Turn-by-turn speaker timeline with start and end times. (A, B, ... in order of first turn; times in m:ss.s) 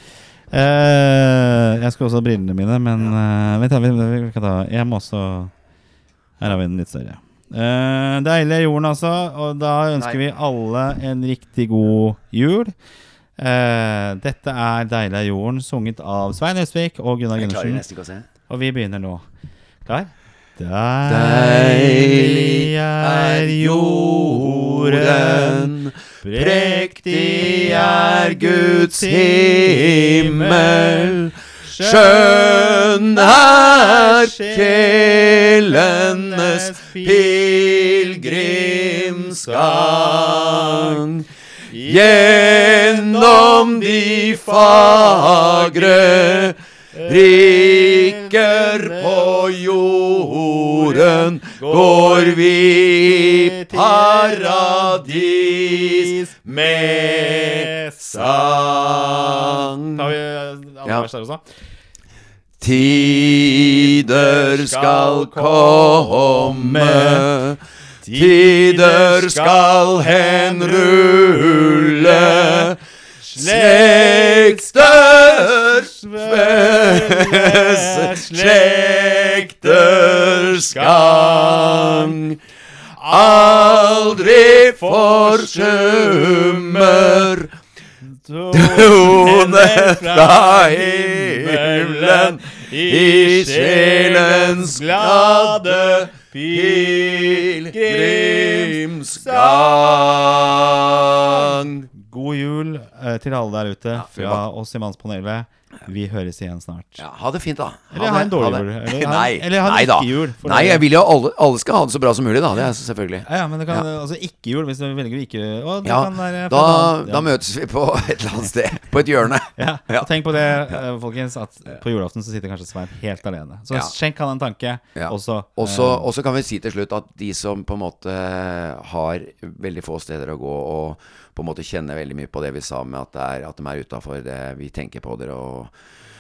0:00.5-0:05.5 A
0:06.4-0:12.7 A
0:13.4-0:17.8 A
0:17.4-0:18.3 B
0:18.5-0:19.2 A
0:19.8-0:37.4 A
0:21.0-0:41.2 B
0:38.1-0:41.0 A
0:41.7-0:49.5 A
0:41.8-1:00.0 B
0:50.5-0:55.0 A
0:55.8-0:58.4 A
0:59.9-1:01.4 A
1:02.6-1:07.6 B
1:03.9-1:07.2 A
1:08.0-1:12.7 A
1:08.1-1:12.8 B
1:13.2-1:22.2 A
1:13.3-1:22.4 B
1:23.0-1:27.3 A
1:23.0-1:27.5 B
1:28.2-1:40.0 A
1:28.5-1:41.9 B
1:41.1-1:47.0 A
1:44.0-1:44.4 B
1:47.0-1:53.8 B
1:47.9-1:50.8 A
1:53.2-1:57.3 A
1:55.8-2:00.1 B
1:59.6-2:06.0 A
2:05.0-2:15.7 B